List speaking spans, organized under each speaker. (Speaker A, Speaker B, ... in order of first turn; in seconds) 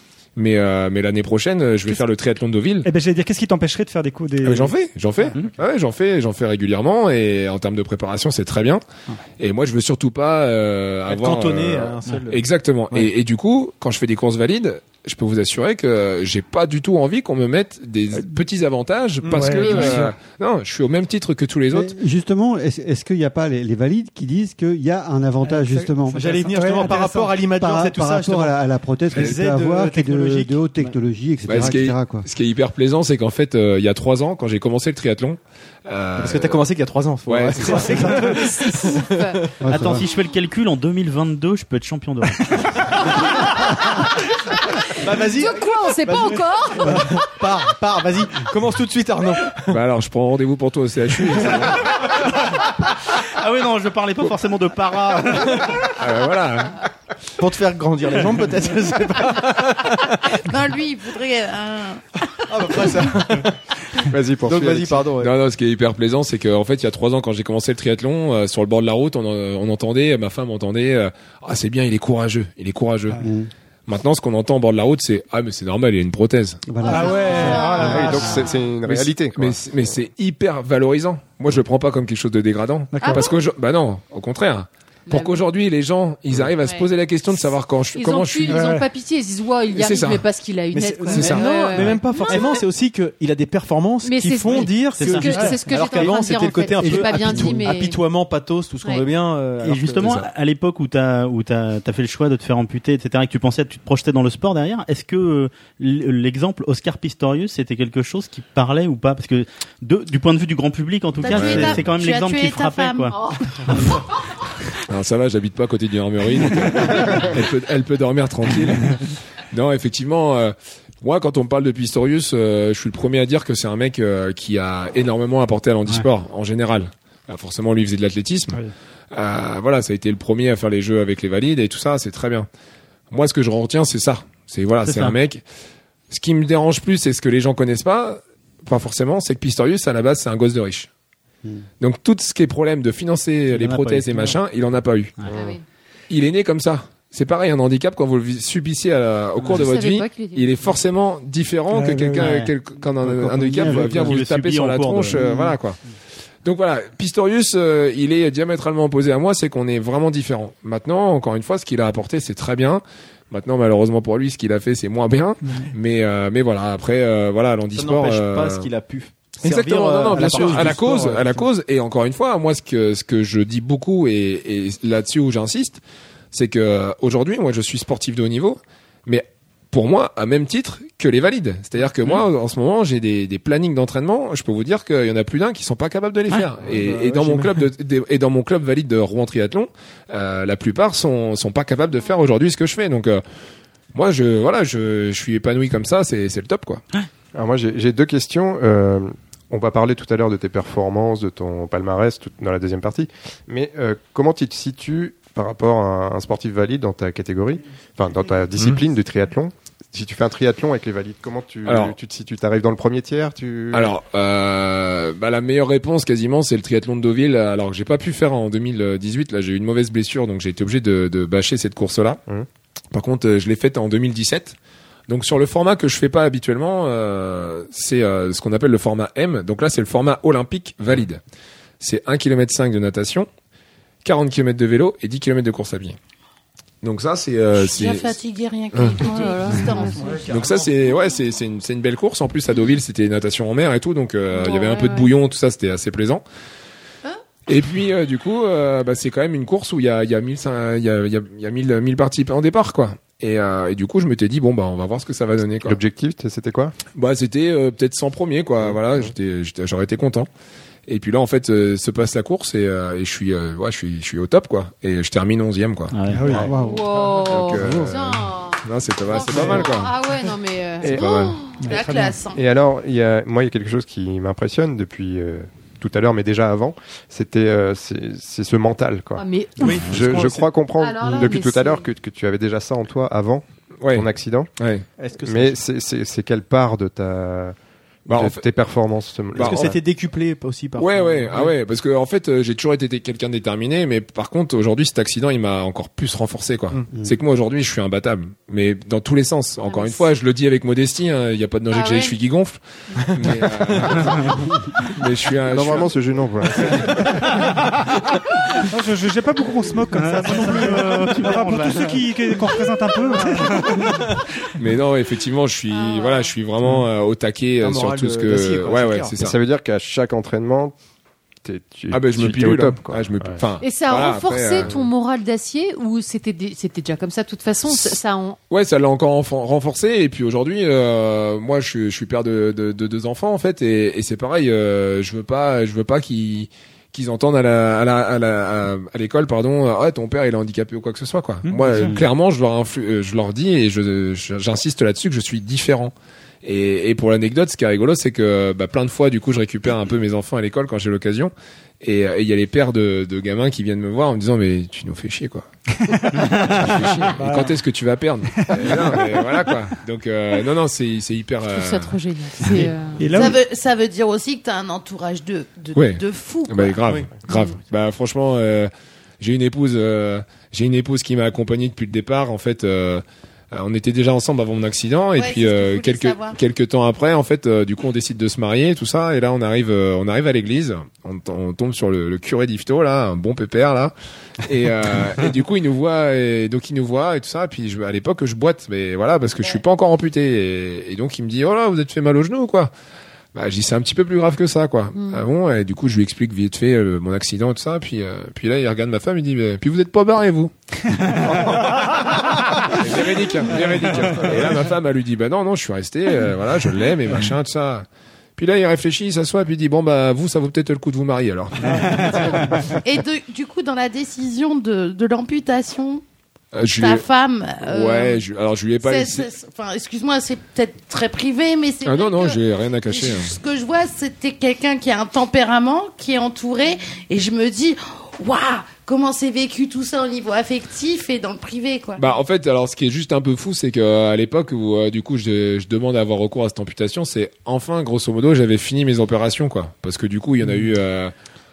Speaker A: 0.3-2.9, 4.4-8.8, 9.4-21.9, 31.4-36.6, 37.2-38.0, 49.7-52.1, 56.0-56.8, 65.2-73.2, 73.9-76.8, 78.9-88.7, 89.7-90.2, 91.1-91.5, 100.0-100.3, 111.2-111.9, 114.9-128.6, 129.1-132.5, 133.1-135.4, 136.1-140.9, 141.8-145.2, 146.1-155.8, 156.4-168.7, 169.4-175.8, 176.3-193.2, 193.9-196.8, 211.6-211.9, 213.7-222.2, 222.9-224.6, 225.1-231.2, 231.8-233.3, 234.0-236.0, 236.8-238.2, 240.2-246.2, 247.5-255.8, 256.9-260.3, 260.9-266.4, 267.1-269.9, 271.0-271.3, 283.8-284.9, 288.1-288.4, 289.3-289.7, 290.8-305.9, 306.6-306.9, 314.5-319.4, 321.9-324.7, 328.5-355.4, 356.1-361.9, 365.7-392.7, 393.3-407.9, 408.4-412.5, 416.5-417.1, 417.6-419.3, 421.8-423.3, 432.0-441.1
Speaker B: 2.8-5.3, 19.2-20.1, 25.4-27.3, 76.8-78.4, 82.9-83.2, 88.5-88.8, 95.3-96.1, 151.7-152.3, 170.1-171.1, 266.1-266.6, 271.6-272.2, 307.1-307.6, 308.5-314.1, 341.4-341.9, 355.8-357.6, 358.4-358.7, 363.0-363.4, 411.6-412.8
Speaker C: 11.1-13.1, 26.1-28.6, 29.1-30.9, 36.2-39.5, 45.0-49.8, 57.4-60.4, 62.5-63.5, 64.4-65.3, 90.7-100.3, 167.7-171.4, 186.6-187.6, 279.6-280.5, 285.0-285.6, 289.4-291.5, 303.1-304.0, 313.6-314.0, 317.6-319.1, 366.9-367.1
Speaker D: 19.5-20.0, 37.9-39.4, 45.2-47.3, 83.0-83.3, 85.1-85.4, 86.6-87.4, 87.9-92.6, 94.0-98.0, 113.1-113.4, 145.3-145.6, 149.4-150.8, 239.0-240.4, 244.3-245.1, 266.5-271.3, 279.1-281.9, 299.6-300.1, 301.7-302.1, 315.7-316.3, 323.6-328.4, 361.5-363.3, 394.9-395.3
Speaker E: 21.7-26.9, 27.6-32.2, 39.6-40.0, 73.2-73.5, 76.7-78.1, 153.4-154.0, 155.1-155.5, 266.4-266.8
Speaker F: 39.6-42.9, 53.2-55.6, 95.0-95.3, 99.6-114.0, 134.8-135.2, 143.5-144.4, 152.2-152.5, 153.3-155.2, 265.9-266.4, 309.9-312.1
Speaker G: 60.4-62.0, 76.8-78.6, 111.2-113.2, 237.5-240.3, 270.9-272.4, 363.1-366.9, 375.1-376.4, 412.7-416.0, 416.8-418.2, 418.8-432.1
Speaker H: 64.1-65.2, 77.7-79.7, 145.3-145.6, 197.3-213.9, 255.6-256.7, 258.6-259.1, 269.3-269.6, 270.8-271.4, 272.3-279.2, 279.8-284.5, 285.2-287.5, 288.1-289.8, 305.5-307.0, 319.2-320.7, 321.4-323.4